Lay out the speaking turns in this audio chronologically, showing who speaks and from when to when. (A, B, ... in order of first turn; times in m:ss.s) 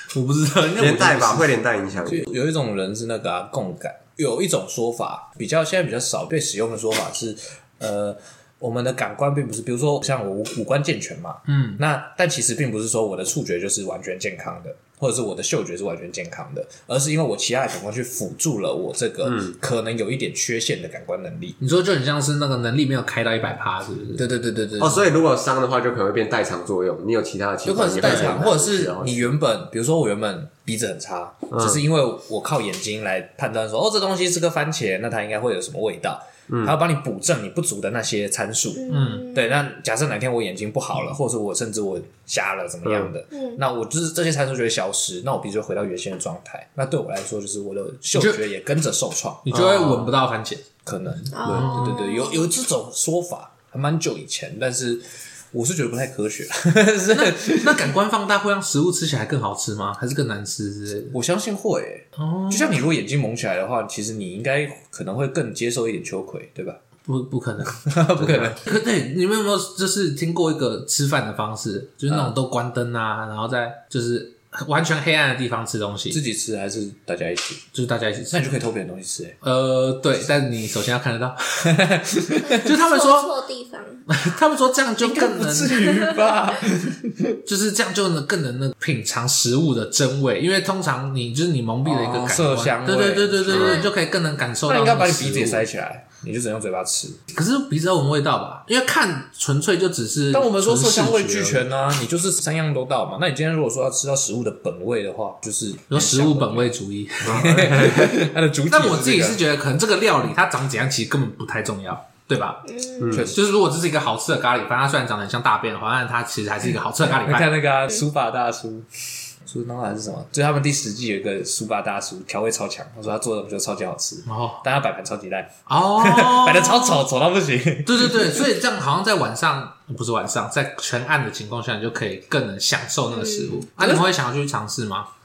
0:00.1-0:01.6 A
0:00.8-0:02.3 B
0:02.1-0:21.6 C
0:11.5-0:11.8 A
0:19.2-0:19.5 B
0:21.6-0:24.3 A
0:24.2-0:25.1 C
0:24.8-0:29.3 B
0:27.6-0:50.1 C
0:28.0-0:28.3 A
0:31.5-0:31.8 B
0:36.5-0:36.8 B
0:38.8-0:39.6 D
0:38.9-0:39.3 A
0:42.8-0:43.1 B
0:43.3-0:43.6 D
0:48.1-0:48.4 A
0:49.4-0:50.6 A
0:50.8-0:57.9 C
0:51.3-0:52.5 D
0:51.5-0:52.0 A
0:57.1-1:01.2 A
1:01.1-1:06.8 C
1:02.2-1:02.8 A
1:07.1-1:16.2 A
1:07.9-1:08.6 C
1:16.1-1:17.6 C
1:17.7-1:18.4 A
1:18.3-1:19.4 C
1:19.4-1:21.7 A
1:21.6-1:22.7 C
1:22.5-1:24.1 D
1:22.6-1:23.3 A
1:24.1-1:25.8 A
1:25.0-1:27.4 C
1:25.9-1:26.2 D
1:27.5-1:35.7 A
1:31.8-1:33.9 C
1:33.5-1:33.9 D
1:34.7-1:37.2 C
1:37.3-1:41.6 A
1:40.3-1:46.7 C
1:45.9-1:47.7 A
1:47.2-1:48.3 B
1:47.2-1:49.4 C
1:48.7-1:52.6 A
1:52.6-1:53.2 D
1:53.0-1:53.3 B
1:53.1-1:53.4 C
1:53.2-1:57.6 A
1:57.1-1:58.9 C
1:59.5-2:08.5 C
2:04.3-2:04.6 A
2:05.7-2:07.0 A
2:07.8-2:15.1 A
2:13.1-2:13.6 D
2:13.8-2:14.1 C